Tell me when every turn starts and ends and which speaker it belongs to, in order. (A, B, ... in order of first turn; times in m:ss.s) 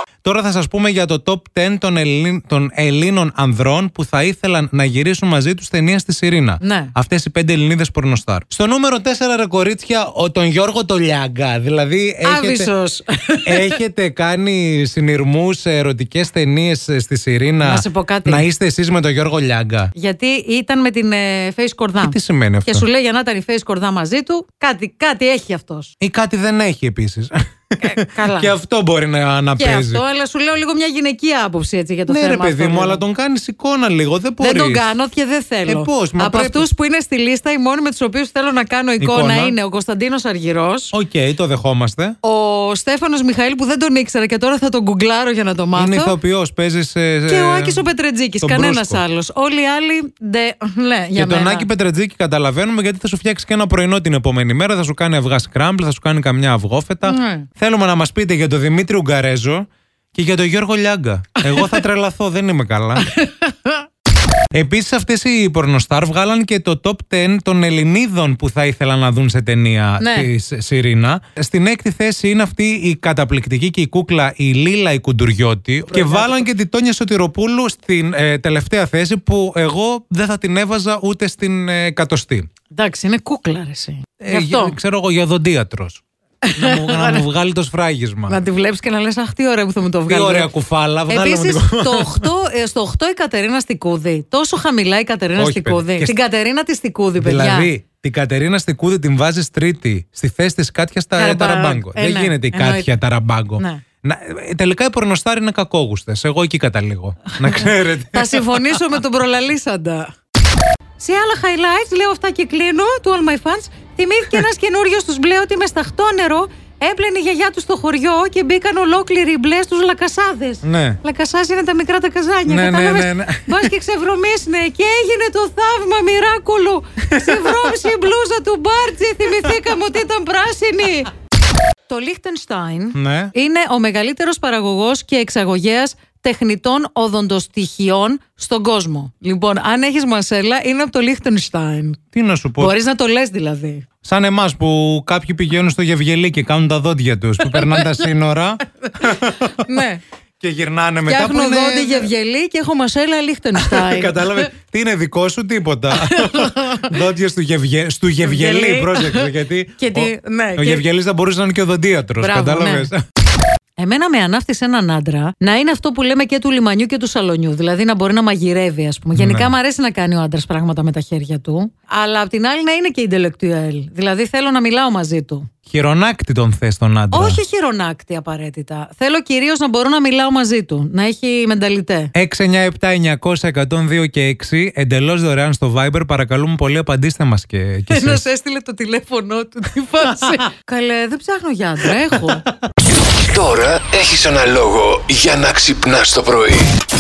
0:00.2-0:12.7 A
0:06.6-0:06.9 B
0:12.2-0:13.7 B
0:13.4-0:19.9 A
0:17.6-0:18.4 B
0:19.9-0:25.9 B
0:22.0-0:22.9 A
0:26.0-0:30.0 A
0:27.8-0:28.5 B
0:29.6-0:33.0 B
0:32.1-0:34.9 A
0:34.4-0:40.9 B
0:35.6-0:36.7 A
0:39.0-0:39.6 A
0:40.9-0:42.2 A
0:42.2-0:46.2 B
0:45.8-0:47.8 A
0:47.3-0:51.7 B
0:48.4-0:49.0 A
0:51.1-1:03.1 A
0:57.0-0:57.5 B
1:01.4-1:01.8 B
1:03.0-1:03.8 B
1:04.5-1:22.5 A
1:10.0-1:10.3 B
1:15.9-1:16.4 B
1:22.7-1:24.7 B
1:24.2-1:26.0 A
1:26.4-1:27.2 B
1:26.5-1:28.4 A
1:28.3-1:30.5 B
1:30.1-1:32.3 A
1:31.1-1:37.7 B
1:35.4-1:36.2 A
1:37.2-1:48.8 A
1:41.2-1:42.9 B
1:47.5-1:50.1 B
1:51.0-2:11.1 B
2:00.6-2:01.0 A
2:02.5-2:03.7 A
2:07.1-2:07.7 A
2:11.9-2:22.0 B
2:12.9-2:13.3 A
2:22.1-2:22.7 A
2:22.6-2:23.8 B
2:24.0-2:29.8 A
2:27.4-2:28.0 B
2:29.6-2:30.0 B
2:30.4-2:32.1 A
2:31.0-2:34.5 B
2:33.5-2:43.0 A
2:36.0-2:36.9 B
2:38.2-2:40.8 B
2:42.2-2:42.9 B
2:43.8-2:55.5 B
2:49.1-2:49.5 A
2:55.6-2:57.4 A
2:57.1-3:02.1 B
3:02.1-3:08.2 A
3:07.9-3:12.4 B
3:13.1-3:16.7 C